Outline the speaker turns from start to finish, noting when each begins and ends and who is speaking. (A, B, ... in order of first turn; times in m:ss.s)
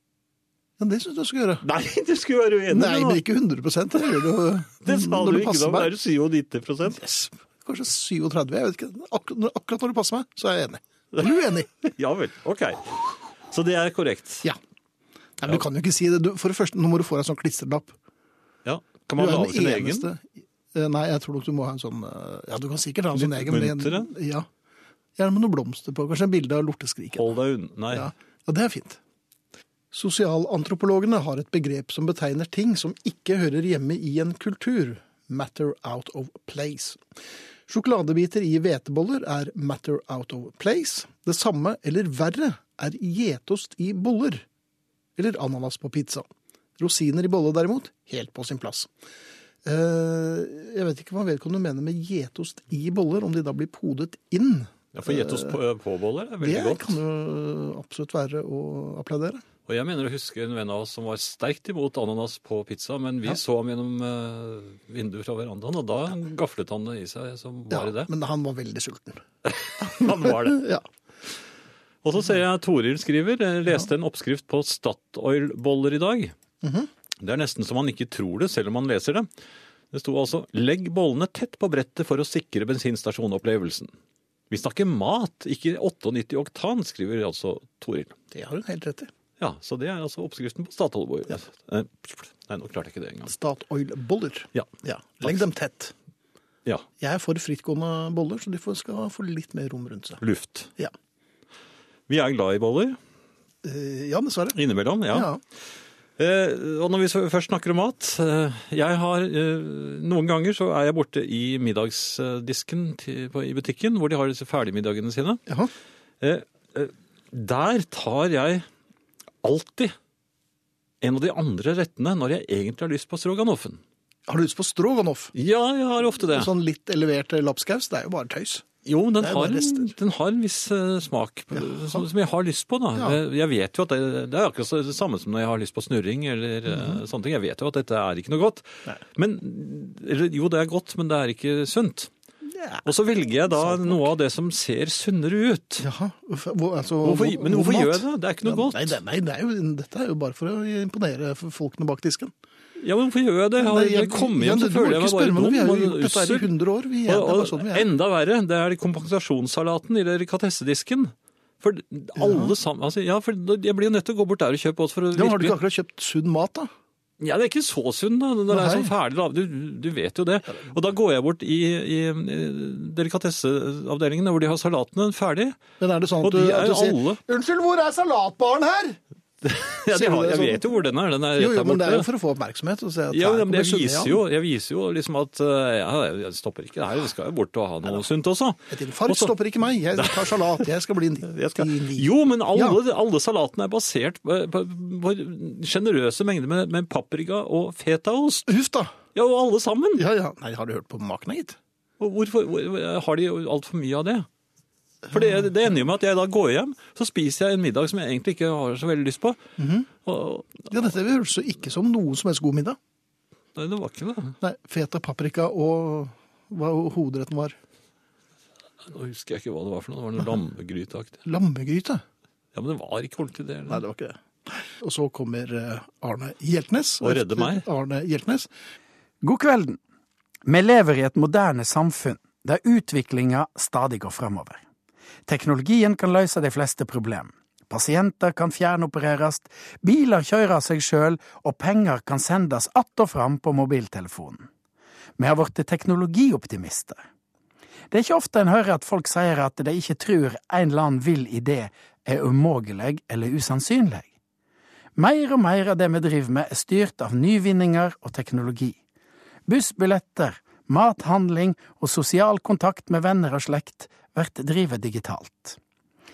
0:00.8-0:01.6 A
0:01.6-0:03.2 B
0:02.7-0:05.9 A
0:04.8-0:07.0 B
0:06.9-0:11.7 A
0:11.2-0:14.4 B
0:15.4-0:18.0 A
0:18.7-0:20.1 B
0:19.2-0:24.5 A
0:23.1-0:24.1 B
0:25.2-0:27.3 A
0:27.2-0:28.1 B
0:27.9-0:29.0 A
0:29.9-0:37.0 A
0:37.7-0:44.4 A
0:45.2-0:46.3 A
0:46.8-0:48.9 A
0:49.6-0:55.6 A
0:54.9-0:57.0 B
0:56.4-0:59.4 A
0:59.7-1:08.1 B
1:07.7-1:09.2 A
1:09.4-1:10.6 B
1:09.8-1:10.8 A
1:12.0-1:16.4 B
1:16.6-1:16.9 A
1:17.2-1:19.3 B
1:19.9-1:23.9 B
1:24.5-1:28.2 B
1:28.3-1:29.1 A
1:29.4-1:33.3 B
1:33.3-1:35.9 A
1:37.0-1:40.2 A
1:40.2-1:40.7 B
1:42.1-1:43.0 B
1:43.6-1:44.6 A
1:44.6-1:45.3 B
1:45.1-1:45.4 A
1:46.2-1:55.4 B
1:56.2-1:58.7 B
1:59.4-1:59.9 B
2:01.0-2:03.8 B
2:04.3-2:05.3 A
2:05.3-2:06.5 B
2:06.3-2:08.6 A
2:08.8-2:22.1 B
2:09.2-2:09.9 A
2:11.6-2:12.0 A
2:16.7-2:17.0 A
2:22.5-2:22.9 A
2:22.8-2:25.9 B
2:23.5-2:24.1 A
2:25.8-2:32.3 A
2:27.0-2:29.0 B
2:32.8-2:36.5 B
2:33.6-2:37.9 A
2:37.1-2:45.6 B
2:42.2-2:42.5 A
2:45.1-2:46.7 A
2:47.2-2:55.6 B
2:48.5-2:48.9 A
2:55.8-2:59.0 A
2:56.2-2:57.2 B
2:59.4-3:02.1 B
2:59.9-3:00.8 A
3:01.4-3:04.2 A
3:03.1-3:09.4 B
3:08.7-3:12.8 A
3:10.0-3:10.6 B
3:11.2-3:18.5 B
3:18.5-3:18.9 A
3:19.2-3:20.0 B
3:20.0-3:21.6 A
3:22.0-3:24.3 B
3:25.1-3:25.5 A
3:25.1-3:29.4 B
3:29.6-3:29.9 A
3:30.0-3:30.9 B
3:30.7-3:32.8 A
3:33.6-3:34.4 B
3:34.4-3:37.6 A
3:38.9-3:41.2 B
3:41.3-3:42.0 A
3:42.6-3:43.8 B
3:43.7-3:48.5 A
3:47.0-3:47.6 B
3:49.2-3:49.8 C
3:50.4-3:54.6 C
3:55.3-4:04.5 C
4:05.2-4:07.0 C
4:07.9-4:14.1 C
4:15.0-4:18.8 C
4:19.5-4:25.6 C